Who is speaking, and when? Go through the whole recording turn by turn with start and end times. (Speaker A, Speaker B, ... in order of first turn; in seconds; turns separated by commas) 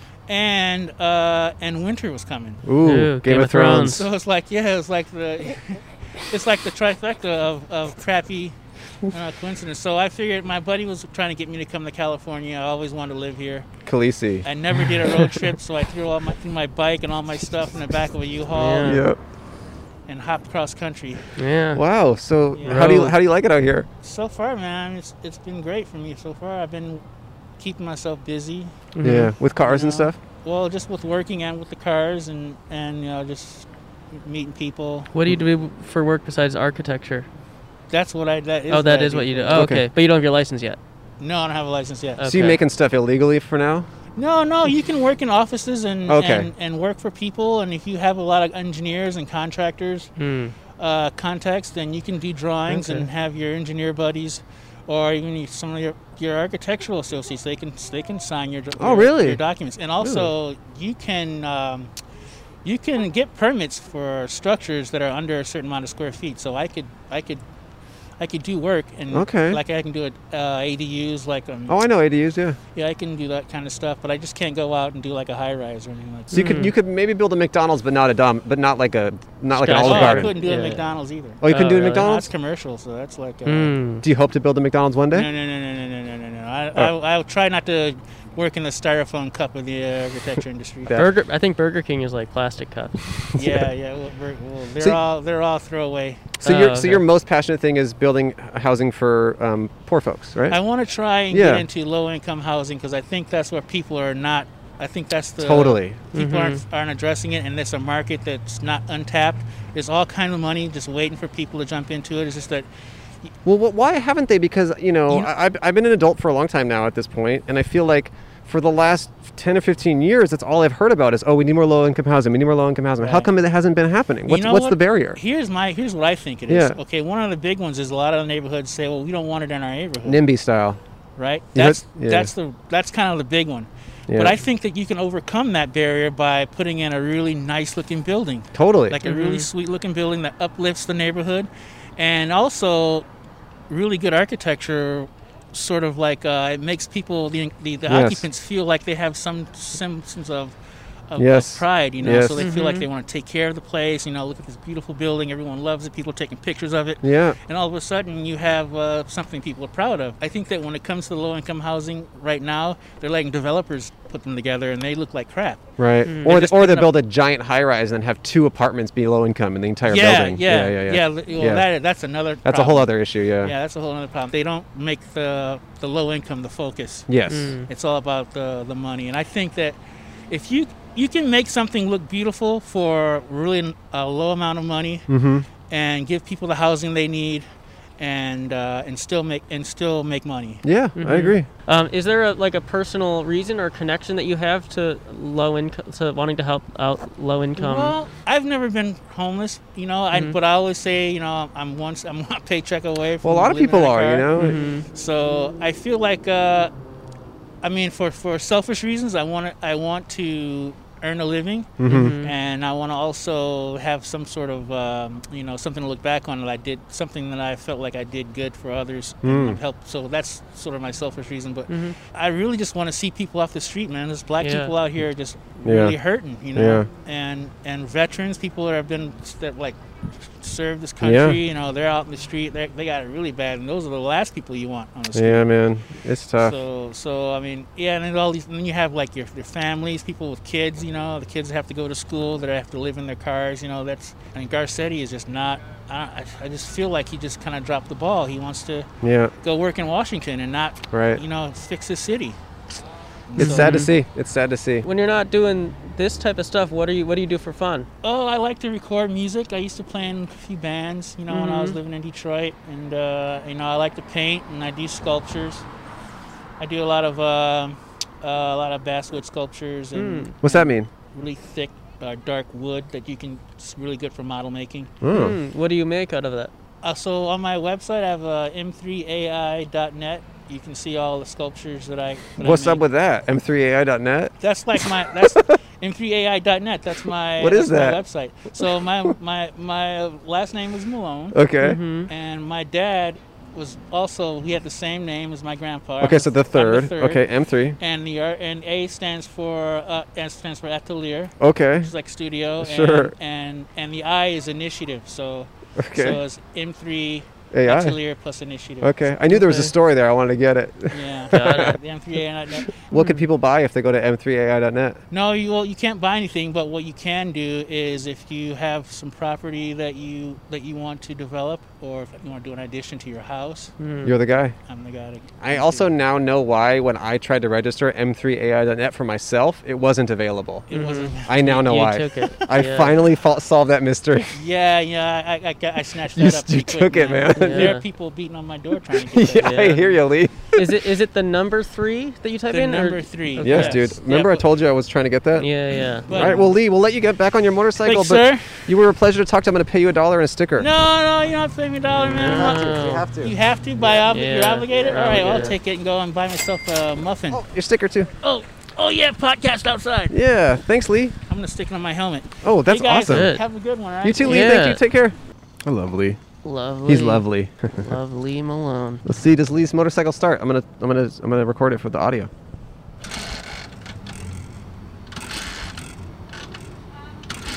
Speaker A: 0.3-2.6, Speaker B: 2.6-4.1, Speaker C: 2.8-4.0, Speaker A: 3.9-8.6, Speaker A: 9.1-13.7, Speaker B: 13.8-14.4, Speaker A: 14.4-19.0, Speaker C: 18.5-19.0, Speaker B: 18.8-19.2, Speaker A: 20.1-21.2, Speaker C: 21.4-21.8, Speaker B: 21.7-23.9, Speaker A: 22.6-23.0, Speaker C: 22.6-23.1, Speaker A: 24.0-27.0, Speaker A: 27.6-28.7, Speaker C: 28.9-29.3, Speaker B: 29.0-30.2, Speaker A: 29.6-35.1, Speaker C: 35.1-37.3, Speaker A: 37.9-39.7, Speaker C: 38.7-40.8, Speaker B: 39.5-39.8, Speaker A: 41.2-42.2, Speaker C: 42.2-42.6, Speaker B: 42.2-43.9, Speaker A: 44.1-50.1, Speaker B: 46.1-46.5, Speaker C: 50.2-50.5, Speaker A: 50.8-61.9, Speaker B: 58.8-59.4, Speaker B: 60.0-60.3, Speaker A: 62.6-67.4, Speaker A: 68.2-71.8, Speaker B: 69.1-69.6, Speaker B: 71.7-72.6, Speaker A: 72.7-76.6, Speaker B: 76.3-80.4, Speaker C: 76.3-76.7, Speaker C: 79.5-80.8, Speaker A: 79.6-83.8, Speaker B: 81.4-82.3, Speaker C: 81.4-82.1, Speaker C: 83.5-84.0, Speaker B: 84.0-85.3, Speaker A: 85.1-91.0, Speaker C: 90.9-93.0, Speaker B: 93.3-93.7, Speaker A: 93.4-96.3, Speaker B: 96.4-100.6, Speaker C: 96.4-97.0, Speaker A: 100.5-112.7, Speaker B: 101.3-101.7, Speaker B: 105.4-106.0, Speaker C: 106.1-106.6, Speaker B: 113.4-125.2, Speaker A: 123.0-123.3, Speaker A: 124.3-130.2, Speaker B: 126.5-126.8, Speaker B: 130.0-130.8, Speaker A: 131.2-143.0, Speaker B: 131.5-132.3, Speaker B: 134.1-134.4, Speaker B: 138.5-139.0, Speaker C: 139.1-139.5, Speaker A: 143.7-150.6, Speaker B: 147.9-148.3, Speaker A: 151.1-165.6, Speaker B: 151.2-152.4, Speaker C: 152.4-152.8, Speaker B: 157.0-157.4, Speaker B: 165.8-171.7, Speaker C: 166.0-166.4, Speaker A: 166.2-166.9, Speaker A: 169.8-177.1, Speaker B: 172.4-173.5, Speaker B: 177.1-177.5, Speaker C: 177.3-177.7, Speaker A: 177.7-185.1, Speaker B: 185.1-185.5, Speaker A: 185.7-187.5, Speaker A: 188.0-190.6, Speaker B: 190.6-191.5, Speaker C: 190.9-197.9, Speaker A: 197.6-204.3, Speaker B: 203.2-204.6, Speaker C: 204.3-204.8, Speaker A: 204.9-206.7, Speaker A: 207.6-235.5, Speaker B: 211.8-212.1, Speaker C: 211.8-212.3, Speaker B: 219.2-219.6, Speaker C: 221.7-221.9, Speaker C: 224.4-224.7, Speaker B: 225.6-225.9, Speaker B: 226.5-226.9, Speaker B: 231.0-231.4, Speaker B: 235.1-236.6, Speaker A: 236.4-248.9, Speaker B: 249.0-249.3, Speaker A: 249.4-252.4, Speaker B: 250.9-251.2, Speaker A: 253.3-253.8, Speaker B: 253.4-254.9, Speaker C: 253.4-253.9, Speaker C: 254.8-257.9, Speaker A: 258.0-265.6, Speaker C: 261.3-261.8, Speaker A: 266.6-274.9, Speaker C: 269.9-270.3, Speaker B: 270.4-270.9, Speaker B: 275.0-275.4, Speaker C: 275.1-276.5, Speaker A: 276.8-282.8, Speaker B: 282.4-285.6, Speaker A: 284.4-291.4, Speaker B: 287.4-288.0, Speaker B: 288.6-289.1, Speaker B: 291.3-291.8, Speaker C: 291.6-292.1, Speaker A: 292.1-297.2, Speaker B: 296.0-297.8, Speaker A: 297.8-309.0, Speaker B: 301.4-301.9, Speaker B: 302.6-303.1, Speaker B: 305.8-306.2, Speaker B: 307.5-308.0, Speaker B: 308.8-311.8, Speaker C: 309.3-309.7, Speaker A: 310.9-312.8, Speaker C: 311.3-311.8, Speaker B: 312.8-315.0, Speaker C: 312.9-313.2, Speaker A: 315.1-323.7, Speaker C: 323.8-324.1, Speaker B: 324.0-324.6, Speaker A: 324.7-325.9, Speaker B: 325.4-330.7, Speaker A: 330.7-331.9, Speaker C: 330.7-332.9, Speaker B: 331.2-334.4, Speaker A: 334.3-339.9, Speaker B: 336.1-337.8, Speaker C: 337.4-337.8, Speaker B: 338.9-340.7, Speaker C: 339.4-339.8, Speaker C: 340.5-343.9, Speaker A: 342.5-344.4, Speaker B: 343.4-345.5, Speaker C: 345.4-346.4, Speaker B: 346.1-350.7, Speaker A: 346.1-346.5, Speaker A: 347.8-348.6, Speaker A: 350.6-357.4, Speaker C: 352.0-353.1, Speaker B: 352.0-354.0, Speaker C: 354.1-355.6, Speaker B: 354.9-355.4, Speaker B: 357.3-358.1, Speaker A: 358.2-360.1, Speaker B: 360.1-361.1, Speaker A: 361.3-364.5, Speaker B: 362.4-363.3, Speaker C: 363.1-363.4, Speaker B: 364.0-366.2, Speaker C: 364.2-364.8, Speaker C: 366.4-369.0, Speaker B: 366.8-367.9, Speaker B: 369.0-372.3